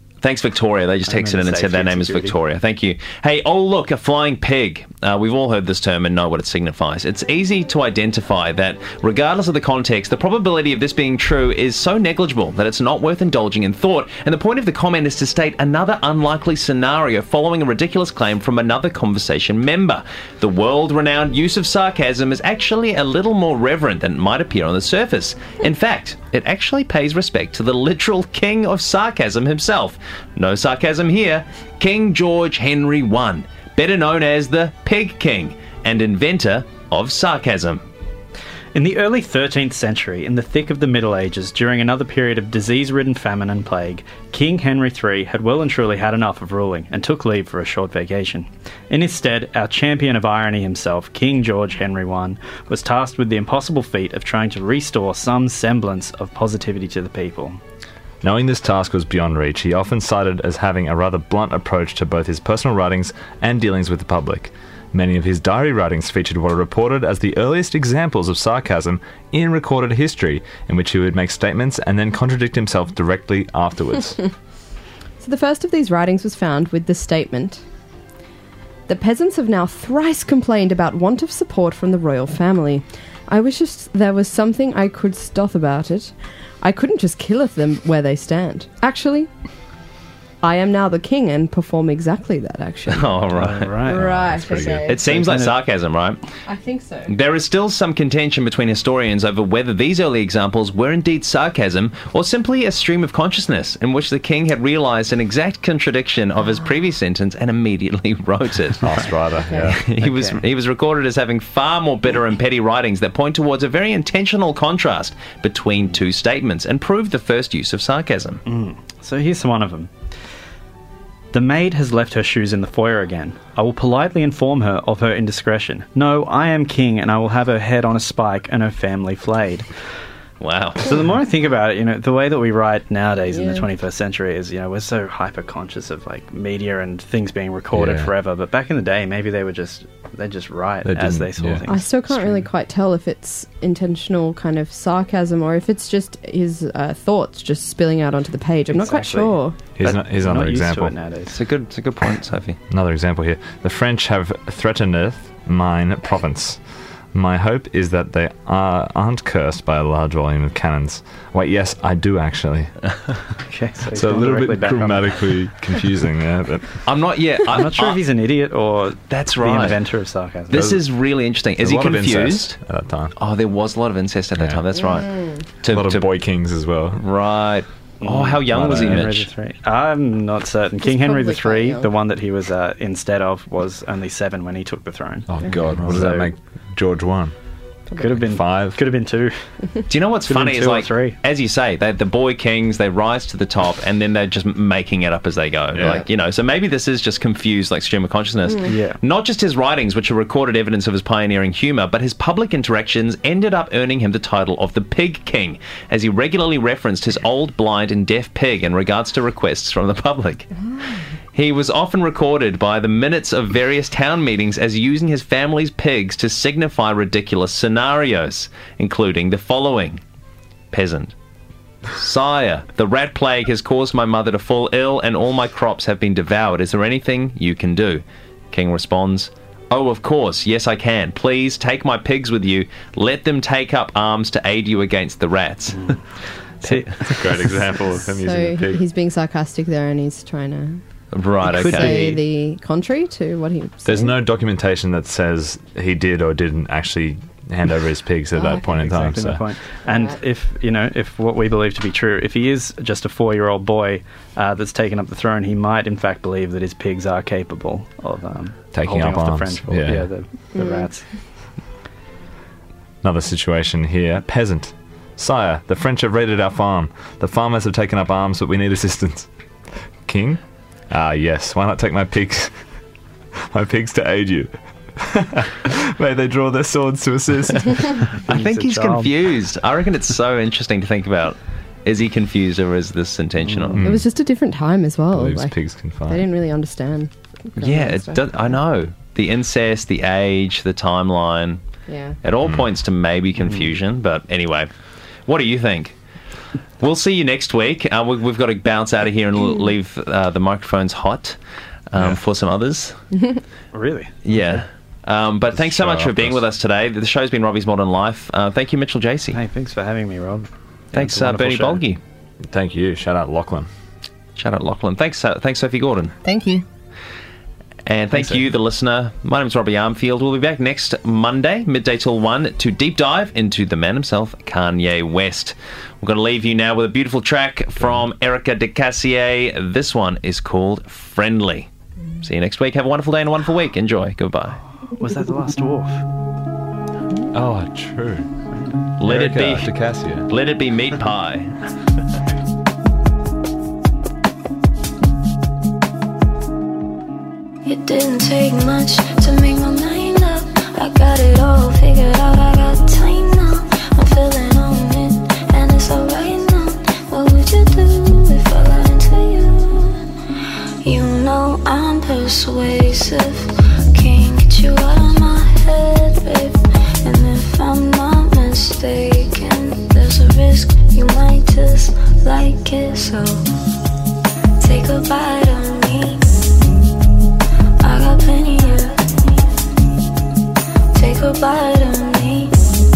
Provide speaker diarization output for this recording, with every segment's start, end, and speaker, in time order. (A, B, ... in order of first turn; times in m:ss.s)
0:00.2-0:37.8 A
0:01.0-0:02.4 B
0:38.7-0:57.6 B
0:58.2-1:14.2 C
1:15.2-1:17.6 D
1:18.9-1:29.3 D
1:30.4-1:33.2 D
1:32.9-1:33.8 A
1:33.3-1:34.0 B
1:33.9-1:35.0 D
1:33.9-1:34.9 C
1:34.8-1:36.2 A
1:34.9-1:35.6 B
1:36.4-1:37.1 D
1:37.1-1:49.1 A
1:48.8-1:49.8 C
1:49.7-1:58.4 A
1:50.0-1:50.4 B
1:58.4-1:59.9 B
2:01.3-2:09.7 B
2:10.4-2:10.9 A
2:10.8-2:22.4 B
2:13.3-2:13.7 D
2:17.7-2:18.1 C
2:20.8-2:21.6 C
2:21.7-2:29.5 D
2:28.7-2:29.4 B
2:29.8-2:31.0 C
2:30.0-2:31.4 B
2:31.3-2:32.6 A
2:32.7-2:36.6 C
2:37.1-2:42.7 C
2:43.4-2:45.2 B
2:43.9-2:46.8 C
2:46.8-2:48.0 A
2:47.5-2:50.8 B
2:49.1-2:49.8 A
2:50.5-2:52.6 A
2:51.6-2:53.1 C
2:53.2-2:56.1 A
2:54.4-2:54.6 C
2:54.8-2:55.4 D
2:55.6-2:57.0 C
2:56.9-2:59.3 A
2:58.0-3:06.3 B
2:58.5-2:59.2 C
3:00.8-3:01.9 D
3:05.3-3:07.3 C
3:08.0-3:09.4 B
3:08.0-3:08.8 C
3:09.9-3:30.5 A
3:10.3-3:11.2 B
3:15.7-3:16.0 C
3:18.6-3:19.0 B
3:31.3-3:40.0 A
3:40.7-3:41.1 A
3:41.9-3:55.9 A
3:55.7-3:56.0 B
3:56.6-3:57.3 B
3:56.6-3:57.0 A
3:57.0-3:58.8 C
3:58.0-4:00.8 D
4:01.1-4:02.2 A
4:01.4-4:04.2 D
4:01.5-4:02.2 B
4:03.8-4:09.4 C
4:08.4-4:08.6 D
4:08.6-4:21.0 B
4:09.9-4:10.1 D
4:18.7-4:20.1 C
4:20.5-4:20.9 D
4:23.0-4:29.3 C
4:30.0-4:32.5 C
4:33.5-4:38.1 C
4:38.3-4:39.1 B
4:38.3-4:43.8 A
4:43.4-4:43.8 B
4:43.8-4:44.0 C
4:43.8-4:48.2 D
4:45.1-4:46.2 C
4:47.6-4:51.6 A
4:51.9-4:52.2 D
4:52.2-4:54.7 A
4:52.4-4:52.7 C
4:55.2-4:56.0 A
4:56.8-5:01.4 A
5:01.9-5:03.0 A
5:03.7-5:04.3 B
5:04.2-5:09.4 A
5:05.5-5:06.4 C
5:09.3-5:11.8 B
5:10.9-5:12.0 A
5:12.5-5:13.7 C
5:14.4-5:16.2 A
5:16.2-5:16.6 D
5:17.8-5:31.7 A
5:18.1-5:18.4 B
5:27.8-5:28.0 C
5:32.2-5:34.6 A
5:35.0-5:36.0 B
5:37.3-5:38.3 C
5:38.5-5:38.8 B
5:39.0-5:39.7 A
5:39.0-5:40.3 C
5:40.3-5:41.6 A
5:47.6-6:00.1 E
6:00.8-6:13.5 E
6:14.6-6:16.3 E
6:17.8-6:19.4 E
6:20.9-6:22.5 E